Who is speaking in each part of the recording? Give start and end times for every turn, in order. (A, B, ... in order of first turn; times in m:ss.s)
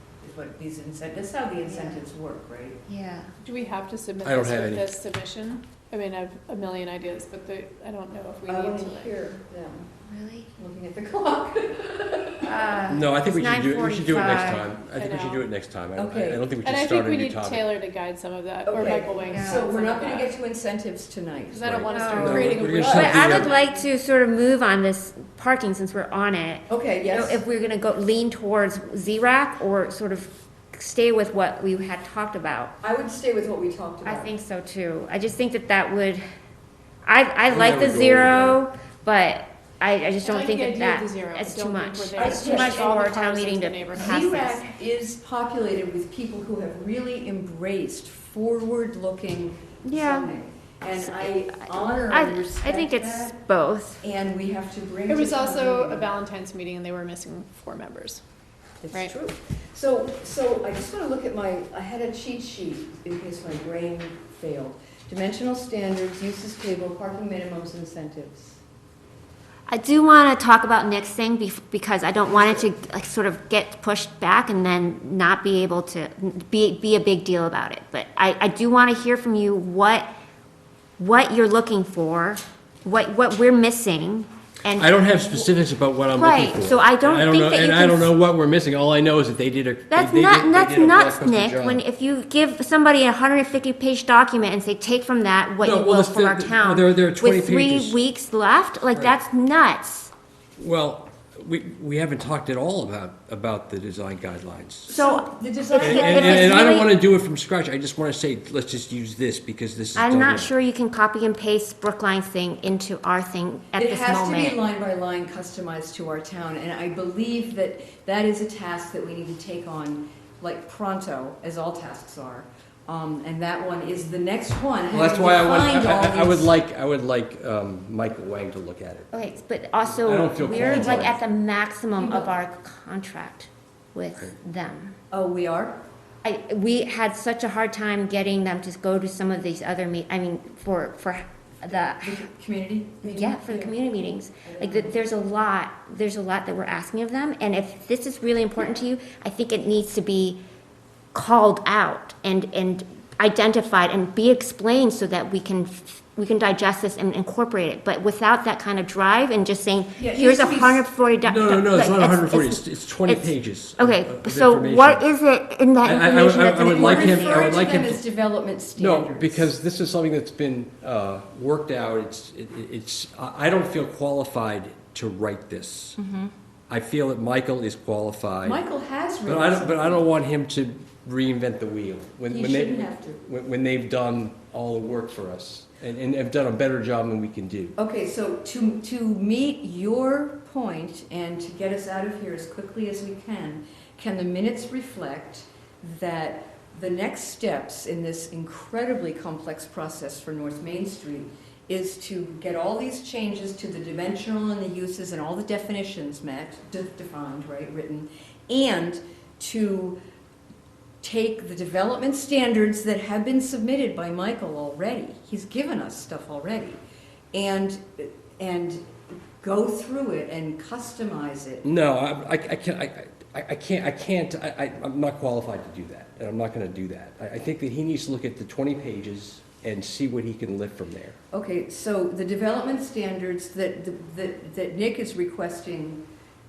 0:00.2-0:02.8 A
0:01.6-0:02.0 B
0:02.8-0:03.3 B
0:03.4-0:09.1 C
0:04.2-0:04.9 D
0:08.5-0:09.9 A
0:10.1-0:10.5 B
0:10.6-0:12.8 A
0:12.4-0:14.7 B
0:12.9-0:17.7 D
0:14.9-0:15.5 C
0:16.0-0:16.4 A
0:16.6-0:20.4 C
0:18.6-0:23.3 A
0:19.2-0:19.6 B
0:21.5-0:23.8 C
0:21.6-0:23.5 D
0:21.9-0:32.7 B
0:26.7-0:27.4 A
0:32.8-0:34.3 A
0:34.0-0:36.2 B
0:37.0-0:44.6 B
0:37.5-0:38.6 D
0:40.2-0:44.5 C
0:42.2-0:43.0 A
0:43.9-0:53.4 A
0:49.8-0:50.3 B
0:51.0-0:54.0 B
0:54.0-0:56.1 A
0:55.1-0:58.2 C
0:58.8-1:08.6 A
1:09.7-1:20.1 B
1:12.3-1:12.6 A
1:21.0-1:25.5 B
1:24.7-1:31.8 D
1:26.1-1:28.1 B
1:29.9-1:40.1 B
1:35.6-1:38.0 D
1:40.6-1:44.9 D
1:44.9-1:46.8 A
1:44.9-1:46.9 B
1:45.8-1:50.5 D
1:50.0-1:54.6 B
1:53.7-2:06.6 A
2:04.9-2:09.1 D
2:09.1-2:15.0 B
2:09.9-2:11.2 D
2:10.4-2:11.1 A
2:12.0-2:12.4 A
2:15.1-2:15.8 A
2:16.2-2:22.3 B
2:21.7-2:25.0 A
2:23.0-2:30.4 B
2:31.1-2:47.7 B
2:40.0-2:40.9 A
2:41.2-2:45.1 D
2:45.8-2:48.0 D
2:46.3-2:49.5 A
2:48.8-2:56.0 D
2:56.0-2:56.3 A
2:56.7-2:58.6 D
2:58.4-3:00.0 A
2:59.2-3:07.8 D
3:02.3-3:03.2 A
3:07.8-3:30.0 A
3:31.0-3:36.8 A
3:37.3-3:38.9 A
3:39.4-3:41.6 A
3:41.6-3:51.2 D
3:51.3-3:56.0 A